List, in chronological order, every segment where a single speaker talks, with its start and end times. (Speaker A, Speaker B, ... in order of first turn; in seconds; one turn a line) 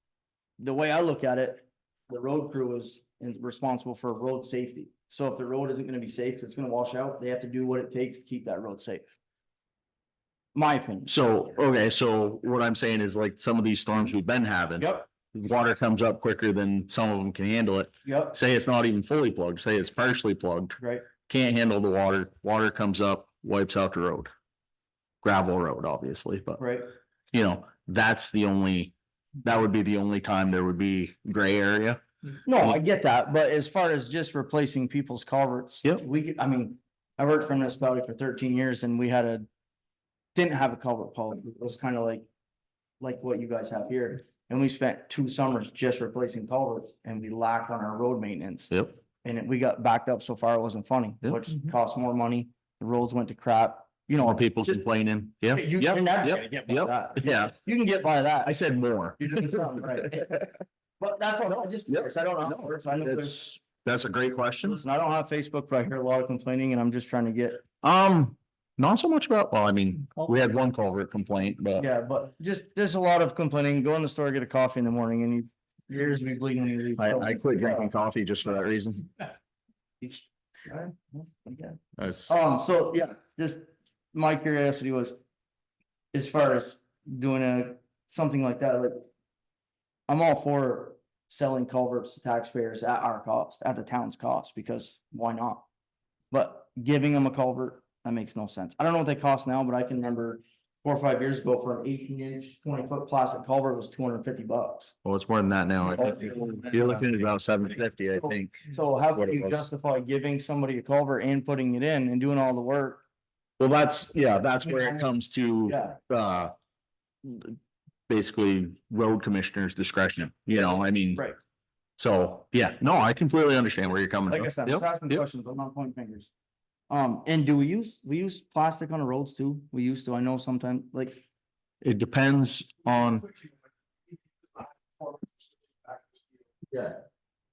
Speaker A: 0.6-9.1
Speaker A: 10.6-11.1
Speaker B: 11.1-24.3
Speaker A: 14.8-15.1
Speaker A: 18.1-18.4
Speaker A: 20.8-21.1
Speaker B: 25.2-26.6
Speaker A: 26.6-26.9
Speaker B: 27.3-32.0
Speaker A: 32.5-39.5
Speaker A: 40.4-42.3
Speaker A: 43.0-54.8
Speaker B: 48.7-49.0
Speaker B: 54.2-57.6
Speaker A: 55.5-58.5
Speaker B: 58.5-59.6
Speaker A: 59.2-60.5
Speaker A: 61.0-63.5
Speaker B: 61.9-64.8
Speaker A: 64.6-67.7
Speaker B: 67.8-71.9
Speaker A: 71.8-77.9
Speaker B: 77.0-79.1
Speaker A: 80.0-85.2
Speaker B: 82.0-82.3
Speaker A: 86.1-89.1
Speaker A: 90.1-95.7
Speaker A: 96.3-105.0
Speaker B: 105.0-109.7
Speaker A: 105.8-107.0
Speaker A: 108.2-113.0
Speaker B: 113.6-116.5
Speaker A: 114.6-115.1
Speaker A: 115.7-116.0
Speaker B: 117.2-117.6
Speaker B: 118.1-121.2
Speaker A: 120.5-121.4
Speaker B: 122.0-125.2
Speaker A: 124.3-126.3
Speaker A: 126.9-131.2
Speaker B: 131.8-133.3
Speaker A: 136.7-137.0